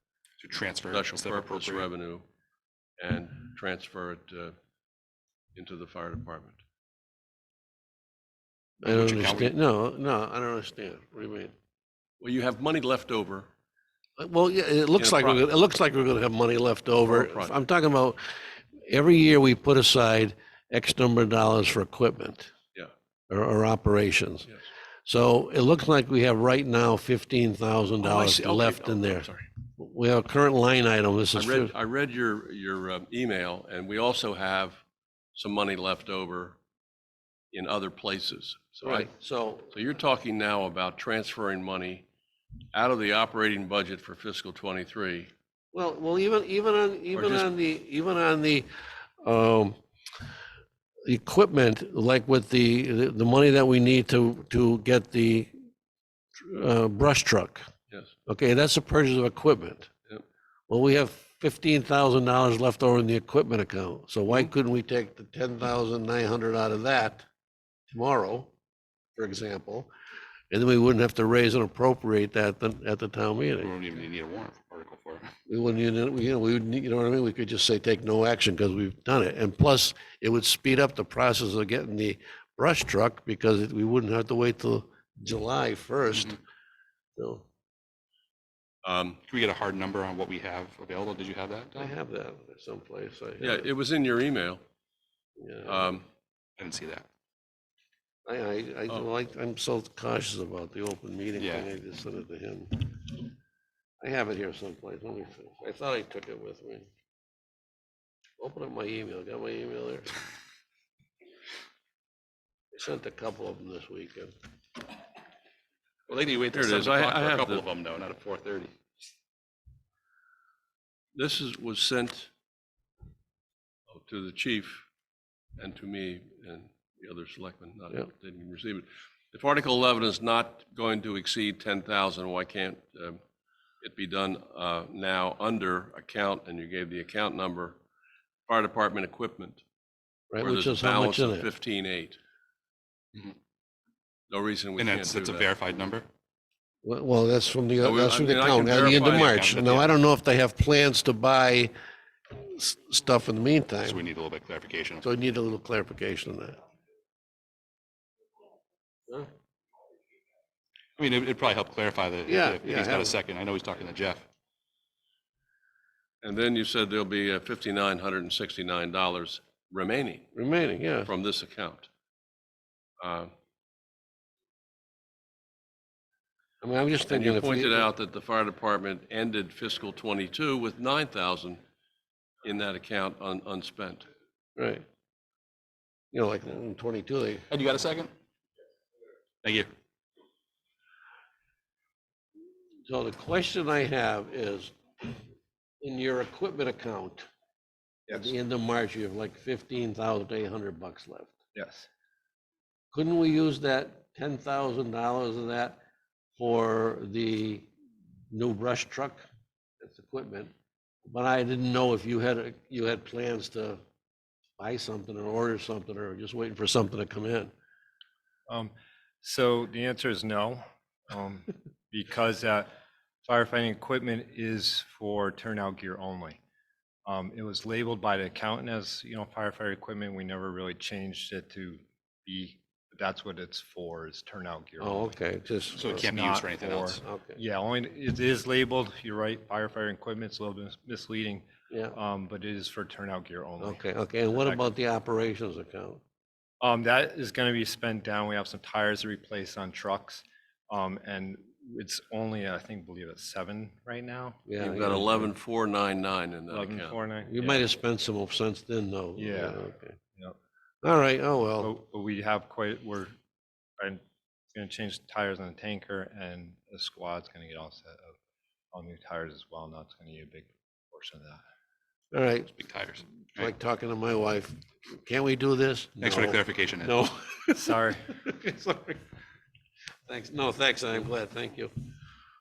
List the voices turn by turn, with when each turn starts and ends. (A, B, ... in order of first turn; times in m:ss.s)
0:00.4-0:01.9 A
0:00.9-0:02.2 B
0:03.0-0:04.6 B
0:05.6-0:06.6 B
0:08.8-0:11.5 C
0:08.9-0:09.6 A
0:12.2-0:13.5 B
0:14.2-0:22.5 C
0:15.0-0:15.4 B
0:17.0-0:17.5 B
0:23.3-0:24.5 C
0:25.0-0:31.7 C
0:28.0-0:29.5 B
0:31.3-0:34.8 B
0:35.4-0:36.6 B
0:37.5-0:39.1 B
0:38.8-0:39.7 C
0:39.7-0:42.1 B
0:42.7-0:45.3 B
0:45.7-0:48.7 C
0:47.2-0:47.5 B
0:49.2-0:49.8 C
0:51.0-0:55.5 C
0:56.4-0:57.6 C
0:58.3-0:59.9 C
1:00.7-1:07.3 C
1:07.9-1:08.5 C
1:09.2-1:09.9 C
1:10.5-1:13.7 C
1:13.6-1:15.3 A
1:15.5-1:26.4 C
1:27.2-1:27.5 C
1:28.8-1:29.2 B
1:29.3-1:32.0 A
1:31.8-1:33.7 C
1:33.4-1:34.6 B
1:35.4-1:36.0 C
1:35.7-1:36.0 B
1:36.6-1:37.0 A
1:38.2-1:43.2 C
1:41.4-1:41.7 A
1:44.0-1:46.9 C
1:48.4-1:50.1 C
1:52.7-1:54.3 C
1:56.1-1:58.7 A
1:56.5-1:57.6 B
2:01.2-2:02.3 B
2:03.9-2:04.9 B
2:05.6-2:13.2 B
2:13.8-2:17.8 B
2:18.5-2:19.6 B
2:20.3-2:21.5 C
2:20.4-2:22.2 B
2:24.3-2:25.5 B
2:24.8-2:26.1 A
2:26.8-2:31.7 C
2:27.8-2:29.8 B
2:28.6-2:29.9 A
2:32.3-2:34.0 C
2:33.8-2:35.1 A
2:35.0-2:36.6 C
2:41.0-2:44.2 A
2:42.3-2:43.2 C
2:46.2-2:50.3 B
2:50.4-2:51.1 C
2:51.0-2:51.9 B
2:53.0-2:53.3 B
2:56.6-2:57.9 C
2:57.1-3:01.6 B
3:02.4-3:04.1 B
3:04.6-3:04.8 C
3:06.1-3:07.5 C
3:07.5-3:08.1 A
3:09.4-3:09.7 A
3:12.9-3:15.1 C
3:15.8-3:17.3 C
3:18.1-3:21.4 C
3:21.6-3:21.9 D
3:22.9-3:25.8 C
3:26.4-3:27.7 C
3:28.3-3:29.2 C
3:29.8-3:30.5 C
3:31.0-3:33.8 C
3:34.6-3:37.5 C
3:38.5-3:42.7 D
3:43.2-3:46.4 D
3:47.0-3:55.2 D
3:54.8-3:56.1 C
3:55.8-3:57.0 A
3:55.8-4:04.7 D
3:57.0-3:57.4 C
4:01.7-4:02.0 C
4:03.6-4:06.0 C
4:06.6-4:14.4 D
4:14.5-4:15.3 C
4:14.6-4:17.6 B
4:16.5-4:17.3 D
4:17.2-4:19.9 C
4:19.2-4:20.4 D
4:20.8-4:21.7 C
4:21.6-4:23.1 D
4:24.5-4:28.2 D
4:28.7-4:31.4 D
4:32.1-4:32.5 C
4:32.6-4:33.5 A
4:33.4-4:39.0 C
4:36.0-4:37.0 A
4:37.6-4:38.1 D
4:40.1-4:41.7 C